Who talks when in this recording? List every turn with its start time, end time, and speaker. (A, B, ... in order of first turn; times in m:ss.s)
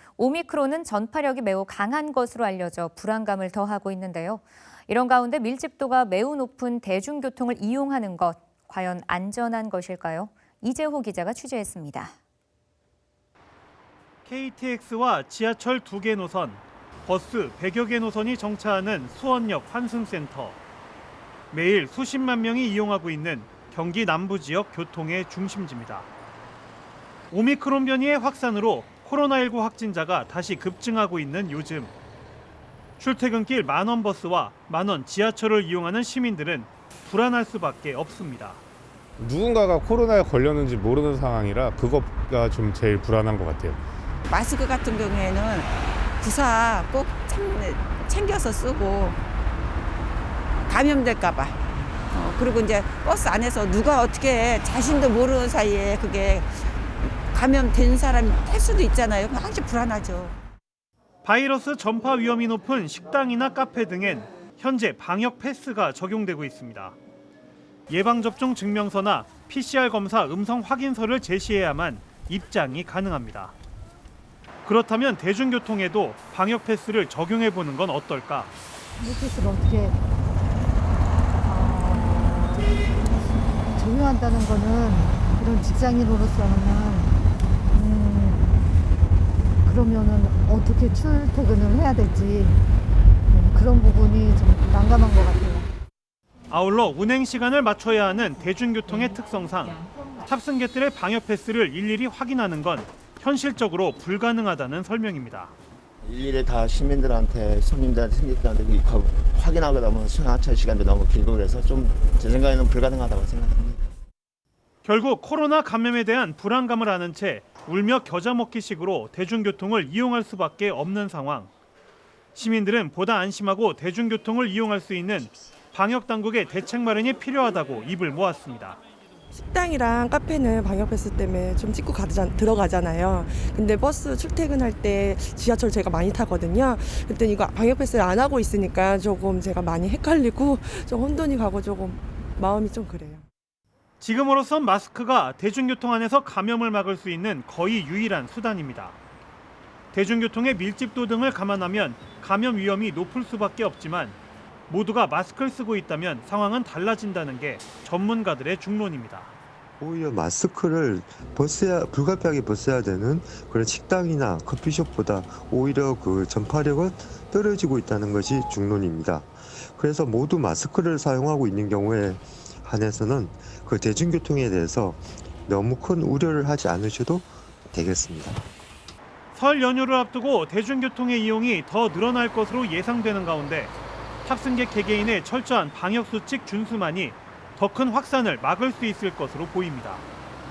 0:00.2-0:12.1 A
0:14.2-0:20.6 B
0:21.5-0:26.1 B
0:27.3-0:31.9 B
0:33.0-0:38.6 B
0:39.2-0:43.8 C
0:44.3-0:49.2 D
0:50.7-0:51.6 D
0:52.1-0:56.7 D
0:57.3-1:00.4 D
1:01.2-1:07.0 B
1:07.9-1:13.5 B
1:14.6-1:18.5 B
1:19.0-1:20.0 E
1:21.4-1:22.7 E
1:23.7-1:27.1 E
1:27.7-1:28.5 E
1:29.6-1:32.6 E
1:33.3-1:35.7 E
1:36.5-1:45.5 B
1:46.0-1:53.9 F
1:54.8-2:01.5 B
2:02.3-2:08.8 B
2:09.3-2:23.2 G
2:24.0-2:29.0 B
2:29.9-2:34.2 B
2:34.7-2:39.3 B
2:39.8-2:58.4 H
2:59.3-3:03.7 B
3:04.2-3:10.0 B